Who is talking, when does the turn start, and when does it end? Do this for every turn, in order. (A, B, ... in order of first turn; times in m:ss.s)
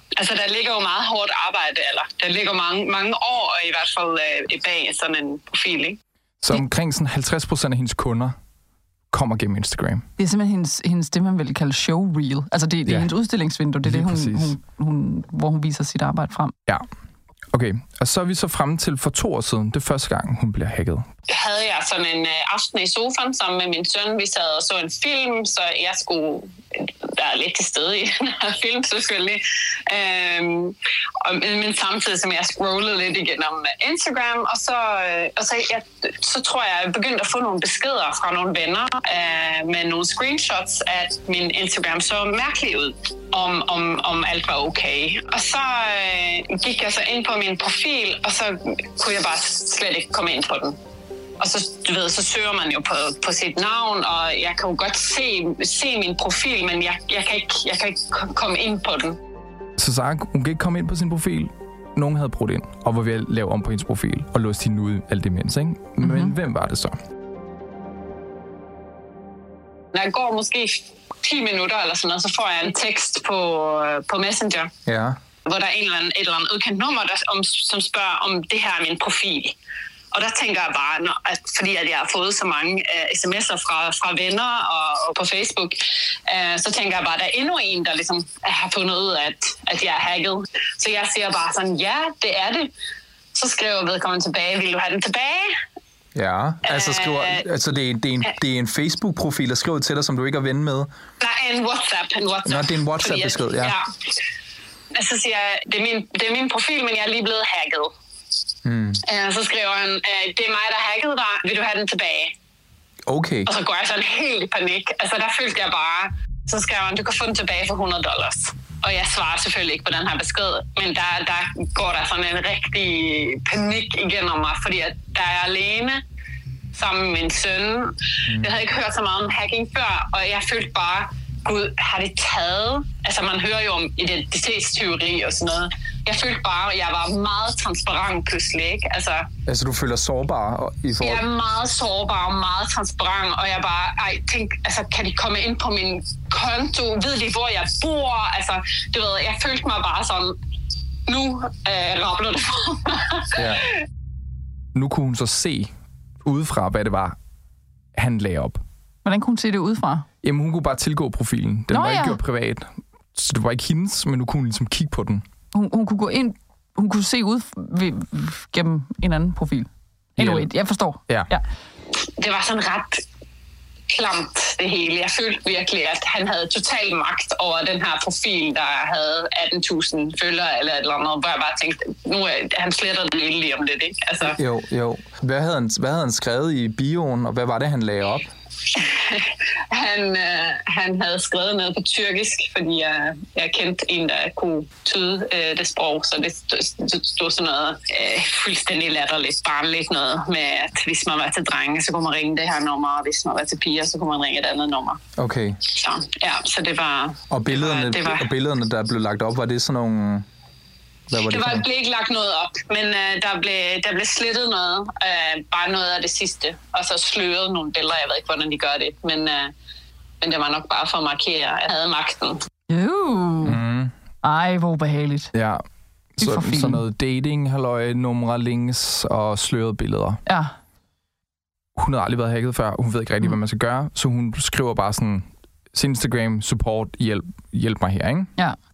0:00.1-0:06.0 A
0:06.4-0:08.4 B
0:09.1-0:10.1 B
0:10.2-0:16.5 C
0:13.8-0:14.5 B
0:17.5-0:21.1 B
0:21.3-0:50.8 A
0:51.4-0:59.2 A
0:59.8-1:06.9 B
1:06.0-1:06.4 C
1:09.9-1:14.7 A
1:14.8-1:15.2 B
1:15.4-1:19.6 A
1:20.1-1:32.7 A
1:33.3-1:35.6 A
1:36.1-1:40.9 B
1:36.6-1:37.4 A
1:41.2-1:43.8 A
1:42.4-1:43.8 B
1:44.9-1:47.9 A
1:48.6-1:49.0 B
1:49.0-1:52.3 A
1:53.1-1:53.5 B
1:53.4-2:06.0 A
2:06.7-2:19.3 A
2:08.3-2:08.5 B
2:19.4-2:21.2 B
2:21.0-2:30.4 A
2:31.1-2:33.4 A
2:33.3-2:33.7 B
2:34.7-2:35.7 B
2:36.2-2:37.2 B
2:38.0-2:38.6 B
2:39.0-2:40.0 C
2:40.2-2:45.2 B
2:41.7-2:42.2 C
2:45.5-2:51.4 C
2:50.2-2:50.5 B
2:51.9-2:53.0 A
2:53.9-3:04.4 A
3:04.3-3:08.3 B
3:08.7-3:25.0 A
3:25.2-3:25.6 B
3:25.6-3:28.3 A
3:27.3-3:30.2 B
3:31.1-3:31.6 B
3:31.3-3:39.5 A
3:40.2-3:42.4 A
3:42.7-3:43.6 C
3:43.4-3:43.9 B
3:44.2-3:45.3 C
3:45.3-3:45.6 B
3:46.2-3:50.2 B
3:46.2-3:46.8 C
3:50.2-3:50.5 C
3:51.8-3:58.3 B